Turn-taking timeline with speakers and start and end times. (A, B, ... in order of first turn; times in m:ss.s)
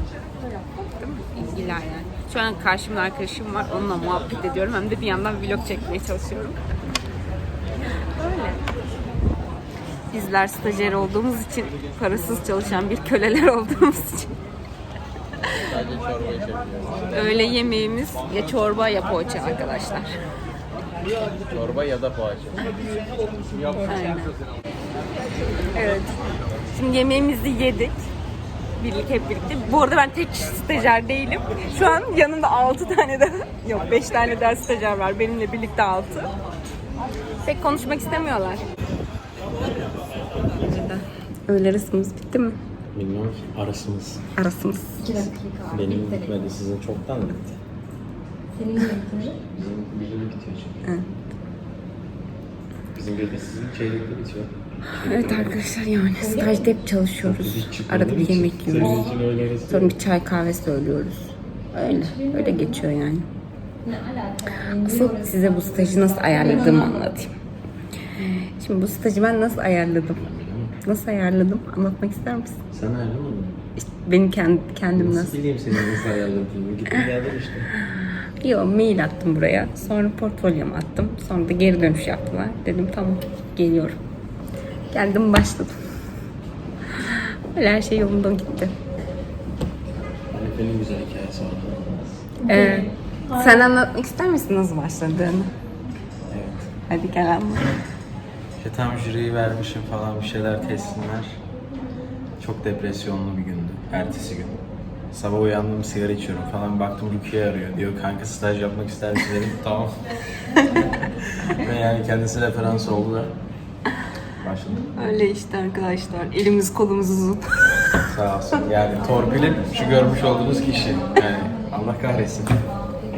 0:00.7-0:06.6 A
0:08.1-0:08.6 A
0:10.1-0:14.4 A
0:15.4-0:15.7 A
0:15.6-0:17.3 B
0:17.1-0:20.2 A
0:21.2-0:23.9 B
0:23.8-0:24.4 A
0:25.7-0:28.0 A
0:28.8-0:36.3 A
0:37.4-0:38.6 A
0:40.6-0:42.6 A
0:42.9-0:44.2 B
0:44.4-0:45.3 A
0:45.0-0:46.3 C
0:45.7-0:47.6 B
0:48.5-0:49.4 C
0:49.2-0:50.9 B
0:50.8-0:51.1 A
0:52.9-0:55.6 B
0:54.9-1:03.3 A
0:57.2-1:00.0 B
1:03.9-1:04.9 C
1:04.5-1:07.4 A
1:08.2-1:12.6 A
1:10.2-1:10.8 B
1:12.7-1:13.6 B
1:13.8-1:16.0 A
1:15.0-1:17.7 B
1:17.8-1:24.0 A
1:24.9-1:25.8 A
1:26.9-1:28.7 A
1:30.3-1:32.3 B
1:32.4-1:35.6 A
1:36.3-1:36.7 B
1:36.9-1:37.8 A
1:38.6-1:41.4 B
1:42.4-1:44.6 B
1:43.9-1:44.2 A
1:45.1-1:50.1 B
1:50.5-1:51.6 A
1:51.5-1:53.3 B
1:54.4-1:54.9 B
1:55.0-1:58.0 A
1:58.0-2:02.6 B